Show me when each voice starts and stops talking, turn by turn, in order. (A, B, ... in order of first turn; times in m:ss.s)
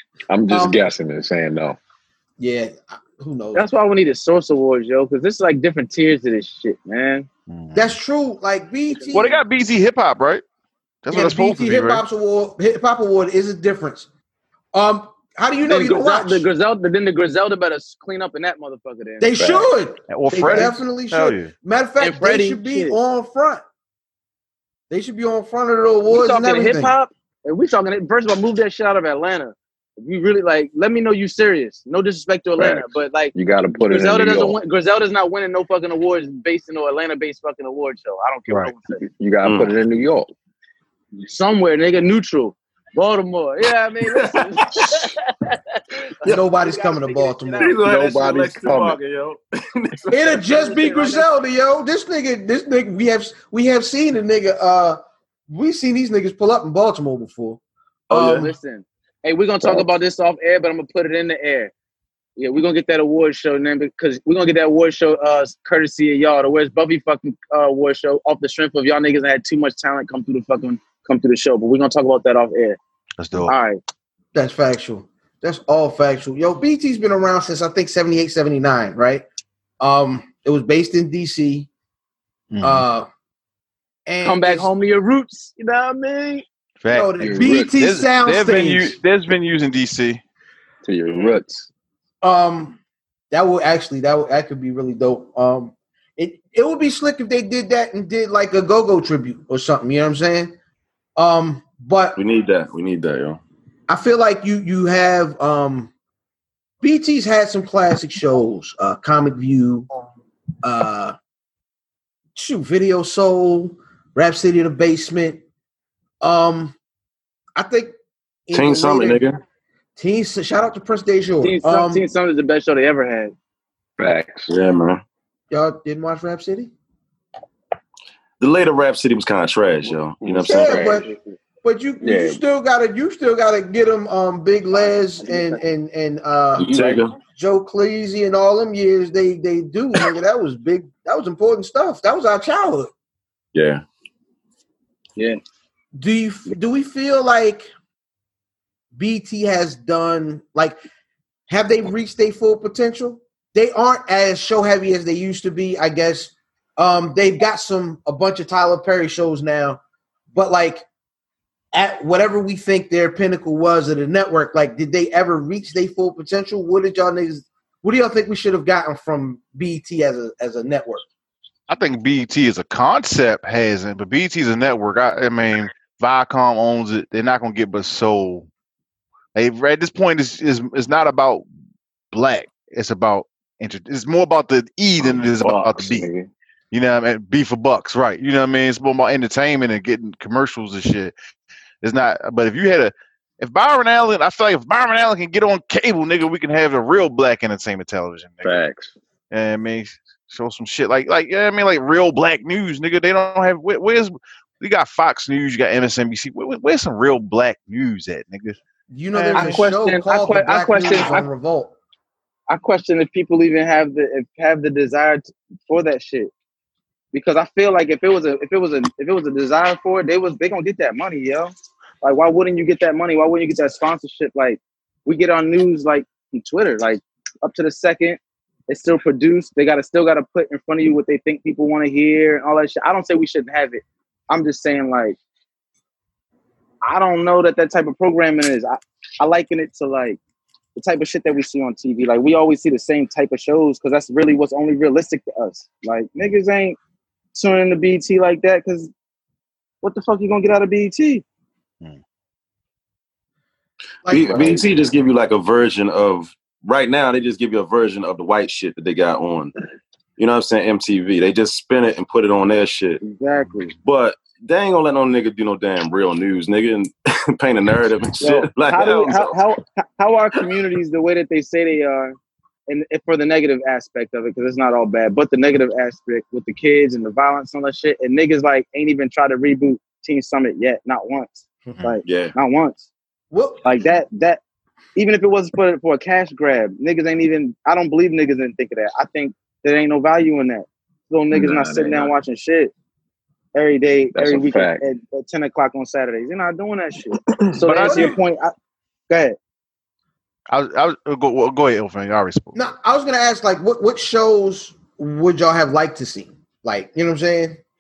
0:00.3-0:01.8 A
0:00.5-0:00.9 B
0:02.4-0:03.6 B
0:03.5-0:07.3 C
0:07.5-0:08.0 D
0:07.7-0:09.4 B
0:09.1-0:10.4 D
0:11.0-0:12.0 D
0:11.1-0:14.1 B
0:14.7-0:16.5 B
0:15.7-0:19.3 C
0:19.2-0:23.6 B
0:19.4-0:19.7 A
0:20.1-0:21.5 D
0:22.0-0:23.0 C
0:24.9-0:27.0 B
0:26.1-0:33.3 C
0:32.6-0:34.6 A
0:33.9-0:39.0 C
0:39.0-0:40.3 A
0:39.4-0:39.7 E
0:41.2-0:47.8 C
0:44.2-0:45.1 E
0:46.3-0:47.7 B
0:47.6-0:50.6 E
0:47.8-0:49.0 A
0:50.1-0:57.6 B
0:50.5-0:51.3 C
0:58.1-0:58.5 E
0:58.1-0:58.5 B
0:58.3-1:01.7 C
1:02.4-1:12.8 C
1:13.2-1:13.6 D
1:13.5-1:13.8 C
1:14.3-1:19.2 B
1:19.8-1:21.7 B
1:22.5-1:22.9 D
1:22.6-1:23.1 B
1:24.1-1:24.7 B
1:24.2-1:26.5 C
1:26.8-1:30.2 D
1:26.9-1:29.0 B
1:27.2-1:27.8 A
1:30.8-1:31.7 A
1:32.2-1:32.8 B
1:33.3-1:40.5 B
1:41.2-1:42.2 B
1:42.2-1:43.4 E
1:43.9-1:45.9 B
1:46.8-1:49.9 B
1:50.6-1:51.2 B
1:52.4-1:55.4 B
1:56.2-1:56.8 B
1:57.6-1:57.9 B
1:58.5-1:59.2 B
1:58.5-1:59.4 E
2:00.0-2:02.0 B
2:01.4-2:03.4 C
2:04.0-2:04.5 A
2:04.5-2:05.0 E
2:05.5-2:06.7 B
2:08.4-2:11.0 E
2:10.2-2:11.1 A
2:10.5-2:11.1 B
2:11.6-2:22.9 B
2:12.0-2:12.4 A
2:16.6-2:17.1 E
2:16.7-2:17.0 A
2:23.6-2:23.8 E
2:26.0-2:27.7 B
2:29.0-2:30.8 B
2:31.5-2:39.8 B
2:40.3-2:40.8 B
2:41.7-2:51.1 B
2:51.7-2:58.5 D
2:59.4-3:01.4 D
3:02.1-3:06.1 D
3:05.0-3:06.3 A
3:06.7-3:11.1 D
3:11.8-3:18.6 D
3:18.4-3:18.9 A
3:19.3-3:28.6 D
3:28.9-3:31.7 B
3:29.1-3:29.6 D
3:29.4-3:31.3 C
3:32.5-3:36.3 C
3:37.1-3:55.2 C
3:56.8-4:00.2 C
4:00.8-4:06.8 C
4:07.3-4:08.9 C
4:09.8-4:11.2 C
4:14.1-4:14.6 B
4:14.1-4:19.5 E
4:14.2-4:14.7 A
4:20.2-4:23.0 E
4:23.0-4:23.8 C
4:23.8-4:29.4 E
4:28.2-4:32.2 C
4:32.7-4:42.9 C
4:42.0-4:42.3 E
4:43.3-4:43.6 B
4:43.6-4:44.4 C
4:45.0-4:52.7 C
4:51.3-4:52.1 A
4:53.5-4:58.5 C
4:54.1-4:54.8 A
4:57.7-4:58.1 D
4:57.8-4:58.2 B
4:59.1-4:59.4 C
5:00.5-5:02.6 D
5:02.6-5:07.6 B